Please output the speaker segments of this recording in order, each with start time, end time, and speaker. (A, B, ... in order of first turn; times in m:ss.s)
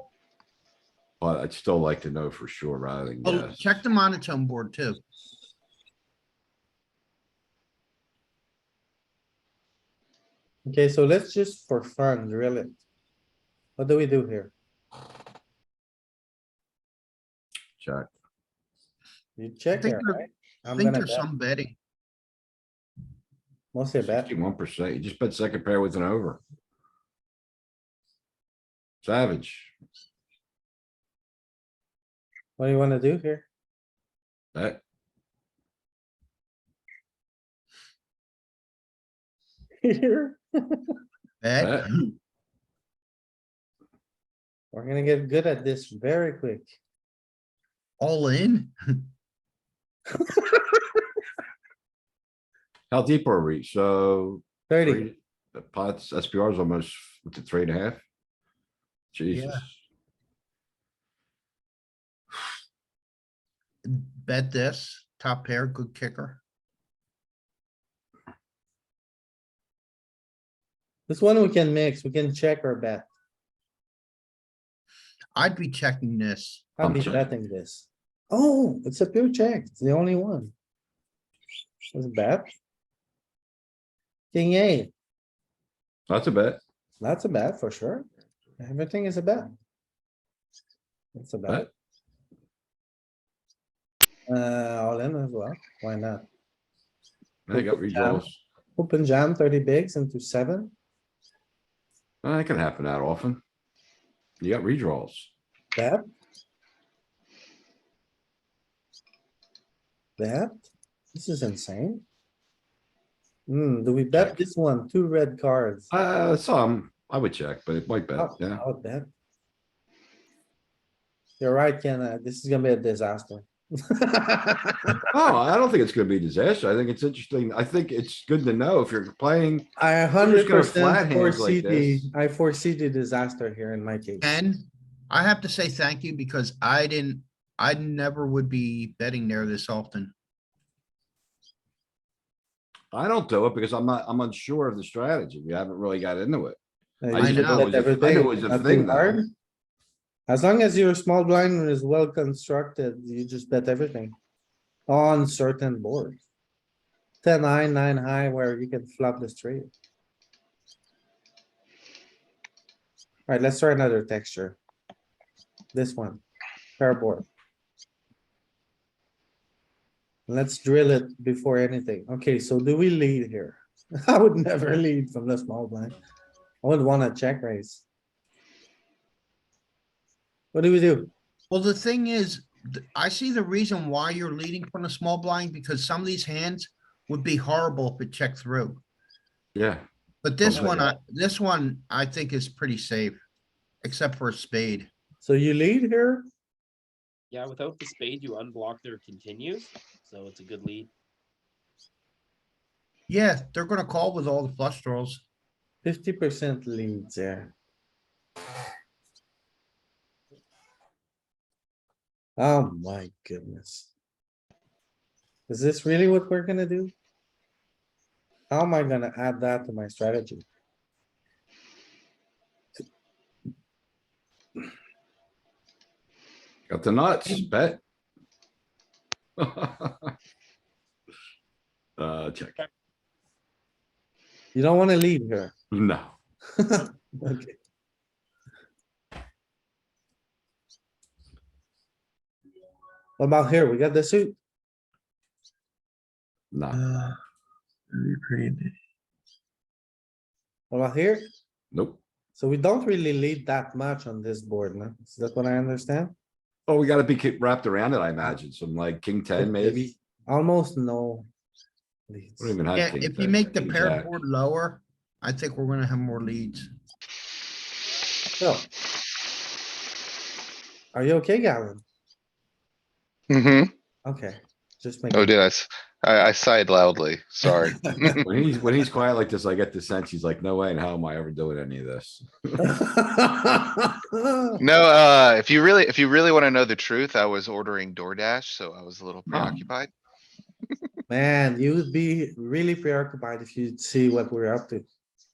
0:01.2-0:03.7 A
0:03.2-0:05.0 B
0:10.7-0:12.8 C
0:13.8-0:14.5 C
0:17.8-0:18.1 A
0:19.4-0:21.2 C
0:19.8-0:20.2 B
0:20.7-0:21.7 B
0:23.7-0:24.3 C
0:24.0-0:26.4 A
0:29.0-0:29.7 A
0:32.6-0:33.4 C
0:34.5-0:34.8 A
0:39.8-0:41.0 C
0:41.4-0:42.1 B
0:41.6-0:41.9 A
0:44.7-0:46.7 C
0:48.0-0:49.0 B
0:50.2-0:50.8 C
0:52.9-0:58.0 A
0:54.7-0:55.1 C
0:59.1-0:59.8 A
0:59.3-0:59.6 B
1:03.8-1:06.4 B
1:11.1-1:13.1 C
1:15.4-1:16.7 B
1:16.8-1:20.5 C
1:16.8-1:17.2 A
1:21.9-1:22.5 C
1:24.3-1:24.9 C
1:26.1-1:26.6 A
1:27.0-1:28.1 C
1:28.6-1:29.5 C
1:31.1-1:31.7 C
1:34.3-1:36.2 C
1:37.5-1:38.4 A
1:37.5-1:38.2 C
1:38.8-1:40.7 C
1:42.2-1:43.4 A
1:44.4-1:45.3 A
1:45.8-1:46.0 C
1:50.2-1:52.0 C
1:53.5-1:55.9 C
1:55.9-1:58.6 A
1:58.2-1:59.1 C
2:01.4-2:05.0 C
2:05.1-2:09.7 A
2:09.8-2:14.3 C
2:10.2-2:12.1 A
2:14.2-2:20.1 B
2:22.9-2:26.6 A
2:27.0-2:29.3 C
2:27.1-2:29.2 A
2:27.1-2:27.8 B
2:30.3-2:34.2 C
2:34.9-2:36.2 C
2:37.2-2:39.7 C
2:43.3-2:44.6 C
2:45.7-2:46.2 C
2:46.8-2:47.2 C
2:50.3-2:55.9 C
2:56.6-2:57.8 C
3:00.5-3:01.1 C
3:01.5-3:08.8 B
3:09.5-3:09.8 A
3:10.2-3:13.2 B
3:10.4-3:11.0 A
3:13.8-3:14.9 B
3:15.2-3:16.3 C
3:17.3-3:20.9 D
3:23.1-3:25.2 B
3:25.8-3:27.5 C
3:32.4-3:33.9 C
3:35.5-3:36.9 C
3:38.5-3:40.4 C
3:46.7-3:47.8 A
3:49.4-3:50.1 A
3:52.0-3:52.6 A
3:54.5-3:55.5 C
3:55.7-3:56.1 A
3:56.6-3:57.6 C
4:03.2-4:04.4 C
4:06.5-4:06.8 A
4:06.7-4:07.1 C
4:07.9-4:08.7 C
4:10.7-4:11.3 C
4:11.7-4:12.0 A
4:12.4-4:16.1 C
4:16.7-4:19.9 A
4:19.4-4:21.3 C
4:22.1-4:22.6 C
4:22.4-4:24.1 A
4:22.7-4:26.7 B
4:28.4-4:28.7 C
4:30.9-4:31.8 C
4:33.3-4:33.7 E
4:34.0-4:35.3 C
4:35.1-4:37.7 E
4:37.4-4:38.2 C
4:38.2-4:42.7 A
4:42.6-4:44.6 C
4:44.6-4:49.9 E
4:49.3-4:49.6 A
4:51.1-4:54.8 C